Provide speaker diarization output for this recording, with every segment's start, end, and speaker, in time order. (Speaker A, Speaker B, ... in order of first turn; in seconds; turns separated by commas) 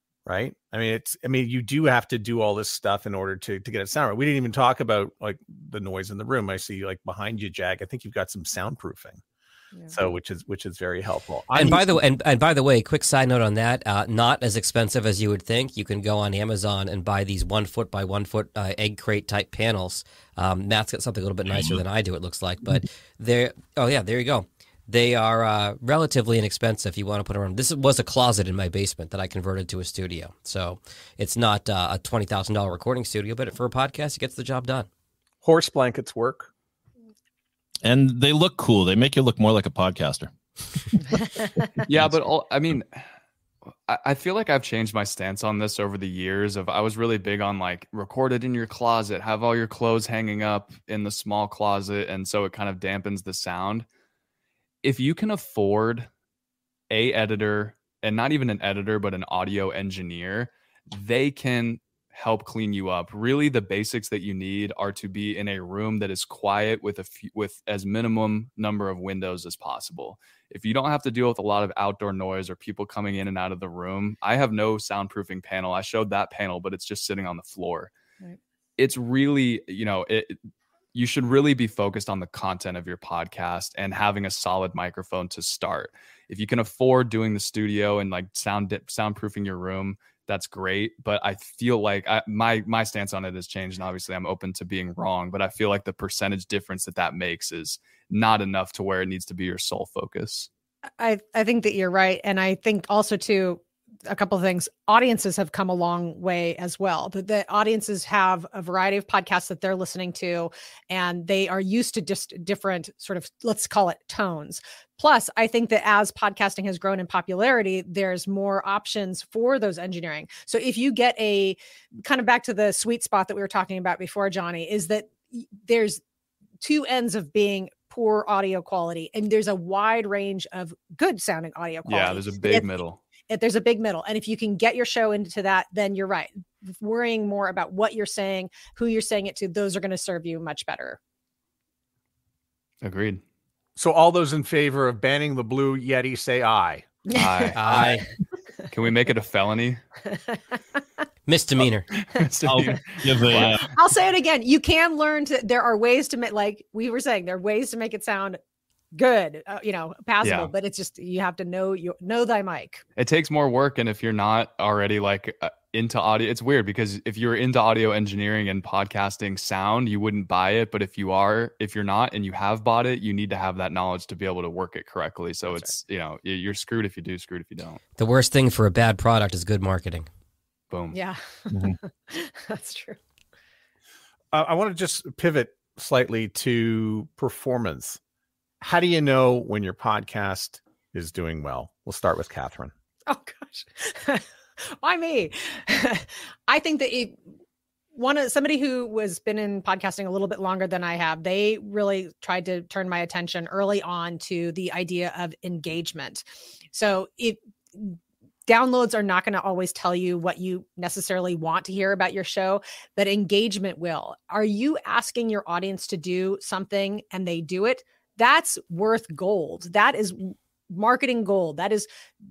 Speaker A: 0.3-9.2, Speaker A: 9.9-12.0, Speaker B: 11.5-34.9, Speaker A: 35.4-36.5, Speaker C: 37.8-40.3, Speaker D: 41.9-43.1, Speaker D: 43.9-53.9, Speaker D: 54.8-56.1, Speaker D: 56.9-77.9, Speaker D: 78.8-80.4, Speaker D: 80.9-100.5, Speaker E: 101.0-126.0, Speaker E: 126.6-132.7, Speaker D: 131.9-133.0, Speaker E: 133.3-141.0, Speaker D: 142.8-143.2, Speaker A: 143.8-146.9, Speaker E: 147.1-147.9, Speaker D: 147.1-147.6, Speaker B: 147.6-148.1, Speaker D: 148.7-149.8, Speaker E: 150.1-150.4, Speaker B: 151.3-151.9, Speaker D: 152.0-153.7, Speaker C: 152.4-153.7, Speaker E: 153.7-158.4, Speaker E: 158.9-162.8, Speaker D: 160.2-160.5, Speaker D: 163.0-177.8, Speaker B: 178.0-180.1, Speaker D: 180.7-181.0, Speaker E: 180.9-183.0, Speaker A: 184.3-188.0, Speaker A: 188.6-192.7, Speaker E: 193.1-197.2, Speaker E: 197.9-208.0, Speaker E: 208.5-221.9